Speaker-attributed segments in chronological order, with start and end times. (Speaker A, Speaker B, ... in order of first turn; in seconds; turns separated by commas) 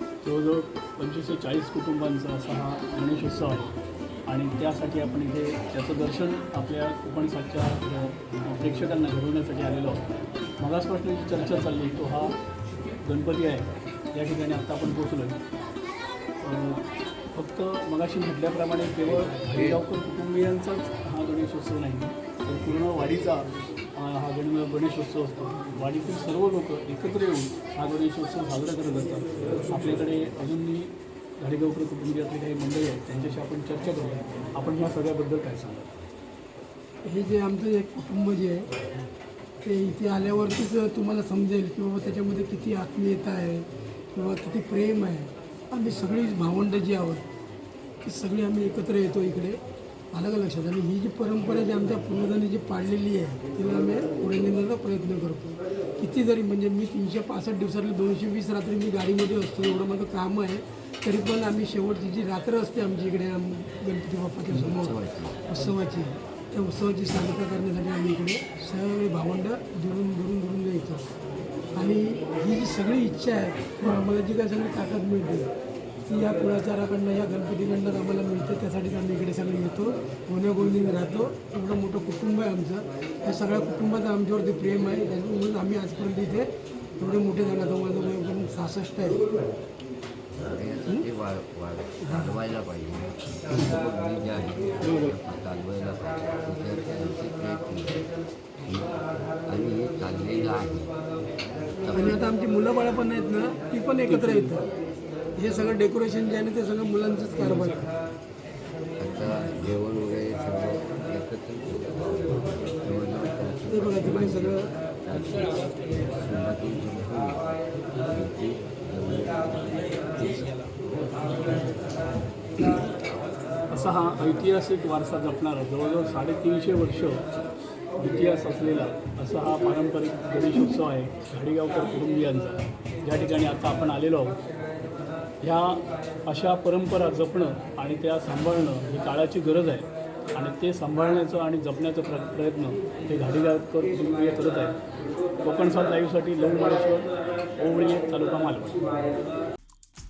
Speaker A: 0.2-3.7, Speaker A: 4.3-10.0, Speaker A: 10.6-15.4, Speaker A: 16.4-35.9, Speaker B: 37.0-38.7, Speaker B: 39.6-47.2, Speaker B: 48.0-49.6, Speaker B: 50.1-71.0, Speaker C: 64.5-65.4, Speaker B: 71.7-75.5, Speaker B: 76.1-86.5, Speaker B: 87.0-89.2, Speaker C: 90.5-98.1, Speaker B: 92.0-92.3, Speaker A: 94.8-95.2, Speaker C: 98.7-101.0, Speaker C: 101.8-102.2, Speaker B: 101.9-104.7, Speaker A: 104.0-104.6, Speaker B: 105.3-107.9, Speaker C: 109.0-112.2, Speaker C: 112.8-120.4, Speaker B: 113.7-114.7, Speaker A: 123.7-127.3, Speaker A: 128.0-134.4, Speaker A: 135.4-144.8, Speaker A: 145.4-149.0